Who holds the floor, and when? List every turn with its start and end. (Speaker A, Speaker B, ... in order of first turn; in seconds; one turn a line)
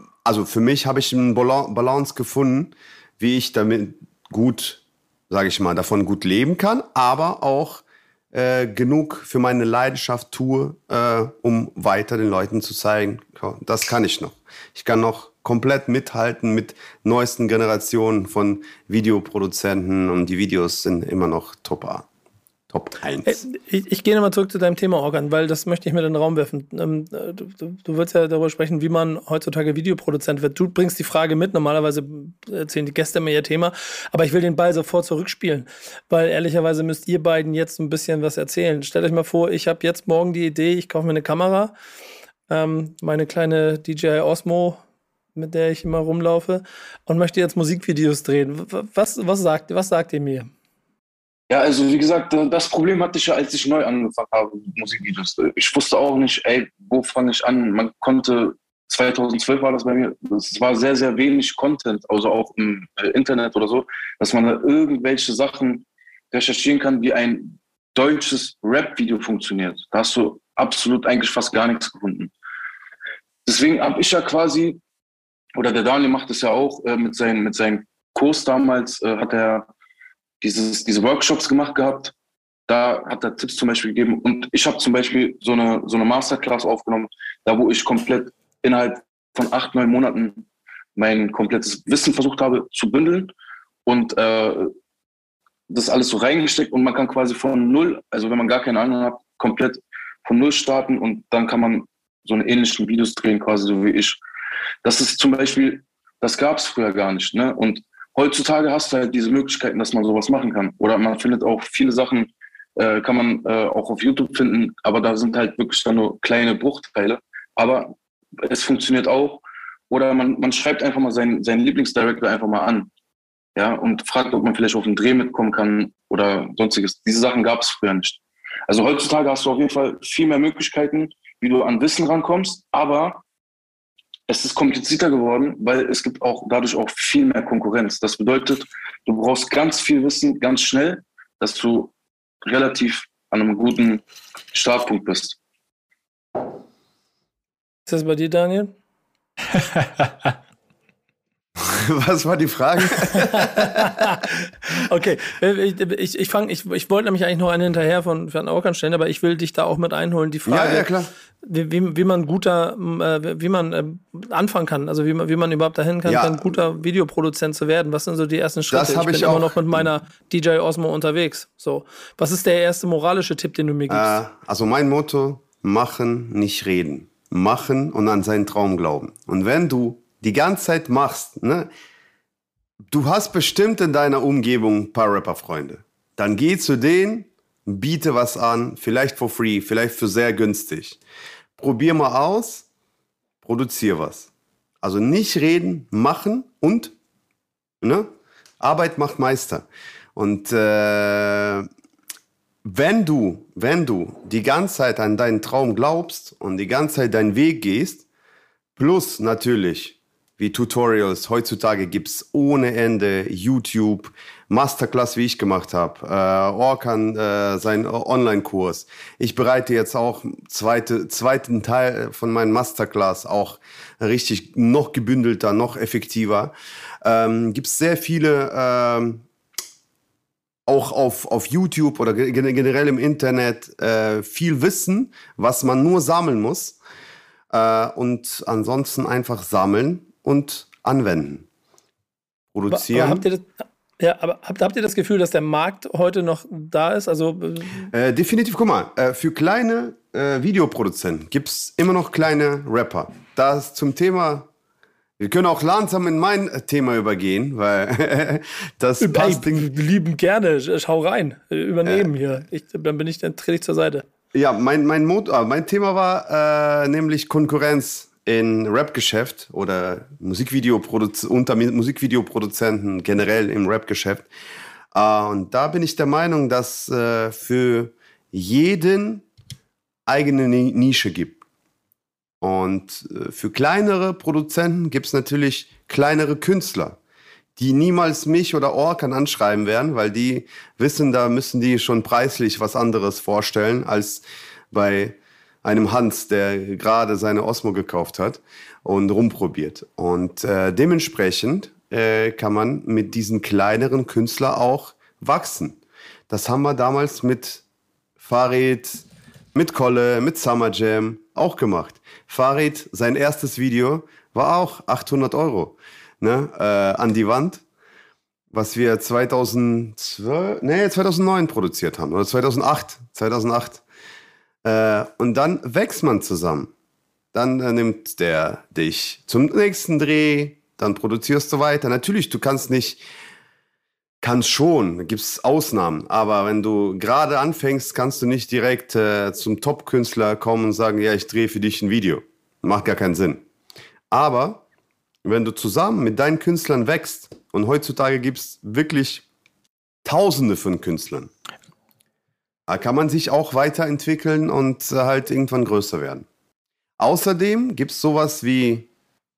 Speaker A: 0.2-22.1
Speaker A: 22.7-23.4
Speaker B: 23.2-41.7
Speaker B: 42.5-44.8
Speaker B: 45.4-50.5
Speaker C: 51.5-72.3
Speaker C: 73.5-74.8
Speaker C: 75.6-79.7
Speaker C: 80.4-82.1
Speaker C: 82.7-90.5
Speaker C: 91.0-93.3
Speaker C: 93.9-94.7
Speaker C: 95.7-104.2
Speaker C: 104.8-122.9
Speaker C: 123.5-133.2
Speaker C: 134.3-141.9
Speaker C: 142.4-144.0
Speaker C: 144.5-145.4
Speaker B: 147.9-148.7
Speaker A: 151.6-154.0
Speaker B: 153.1-160.9
Speaker A: 160.5-161.1
Speaker B: 161.4-174.2
Speaker A: 166.1-166.6
Speaker A: 168.7-169.9
Speaker A: 173.9-181.7
Speaker A: 182.9-191.0
Speaker A: 191.6-192.7
Speaker A: 193.4-194.3
Speaker A: 194.8-196.9
Speaker A: 197.8-201.7
Speaker A: 202.6-208.0
Speaker A: 208.8-229.2
Speaker A: 230.7-236.8
Speaker A: 237.5-241.5
Speaker A: 242.5-243.2
Speaker B: 242.7-247.9
Speaker A: 247.9-254.5
Speaker A: 255.2-259.7
Speaker B: 259.0-264.1
Speaker A: 264.3-274.3
Speaker A: 274.9-279.2
Speaker A: 280.1-281.4
Speaker A: 282.4-287.0
Speaker A: 287.6-305.8
Speaker A: 306.3-307.6
Speaker A: 308.2-317.6
Speaker A: 318.5-323.8
Speaker A: 324.6-326.7
Speaker A: 327.3-333.0
Speaker A: 334.2-343.4
Speaker A: 344.1-344.6
Speaker A: 345.2-349.2
Speaker A: 350.1-351.3
Speaker A: 352.7-356.3
Speaker A: 357.0-358.9